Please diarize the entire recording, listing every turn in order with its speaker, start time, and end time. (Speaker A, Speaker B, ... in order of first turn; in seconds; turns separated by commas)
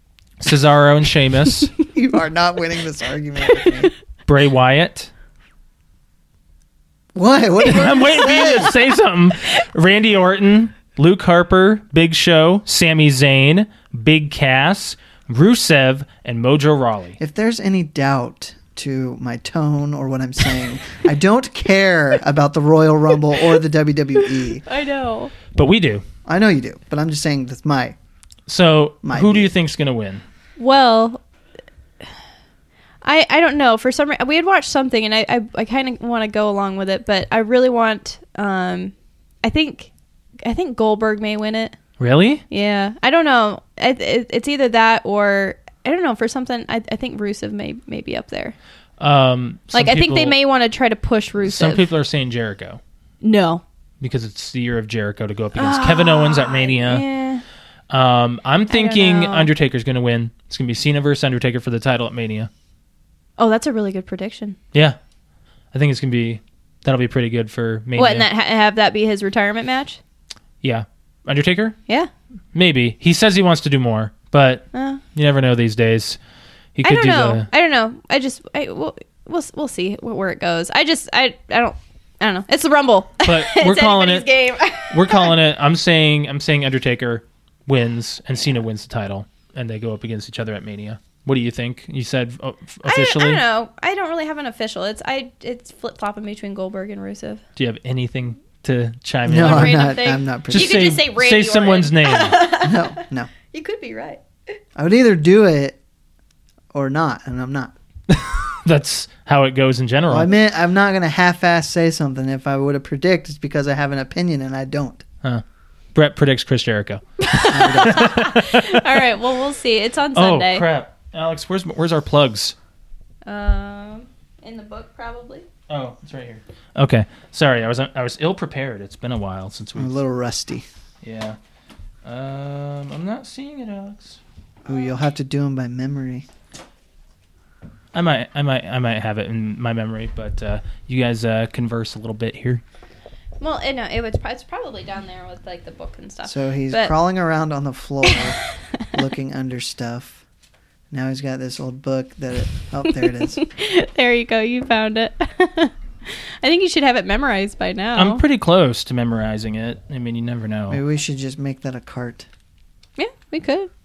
Speaker A: 0.4-1.7, Speaker B: 1.9-3.9, Speaker A: 4.2-5.1, Speaker B: 7.1-8.7, Speaker A: 7.6-17.2, Speaker B: 17.2-24.6, Speaker C: 24.6-25.3, Speaker A: 25.5-26.0, Speaker B: 26.2-27.9, Speaker A: 28.5-30.2, Speaker B: 29.0-29.5, Speaker C: 30.6-31.2, Speaker C: 33.0-39.9, Speaker C: 40.4-41.8, Speaker A: 42.0-42.4, Speaker C: 42.5-48.5, Speaker A: 49.0-50.3, Speaker C: 49.7-51.9, Speaker A: 51.4-52.8, Speaker C: 53.2-53.6, Speaker A: 54.0-57.0, Speaker C: 55.5-57.4, Speaker A: 57.9-62.5, Speaker C: 58.7-59.5, Speaker C: 63.4-64.6, Speaker A: 65.7-68.3, Speaker C: 68.0-70.0, Speaker A: 70.6-71.8, Speaker A: 72.5-76.2, Speaker C: 74.7-75.0, Speaker A: 76.8-77.5, Speaker C: 76.8-85.3, Speaker A: 83.2-93.4, Speaker C: 92.8-97.4, Speaker A: 97.5-99.8, Speaker B: 99.2-100.9, Speaker C: 99.4-104.2, Speaker A: 100.5-102.4, Speaker B: 102.6-103.3, Speaker B: 104.8-105.8, Speaker B: 106.7-107.7, Speaker A: 108.1-110.3, Speaker B: 110.1-115.0, Speaker A: 115.9-119.1, Speaker C: 117.2-120.7, Speaker B: 117.5-118.2, Speaker A: 120.1-122.5, Speaker C: 123.2-125.5, Speaker A: 125.7-129.9, Speaker B: 129.8-130.7, Speaker A: 131.0-131.4, Speaker A: 132.0-134.2, Speaker B: 134.6-136.2, Speaker A: 137.9-142.6, Speaker C: 143.4-146.9, Speaker B: 146.2-148.4, Speaker B: 148.9-150.2, Speaker B: 150.9-153.4, Speaker C: 153.0-158.2, Speaker A: 157.9-160.8, Speaker B: 160.7-162.3, Speaker C: 163.0-163.7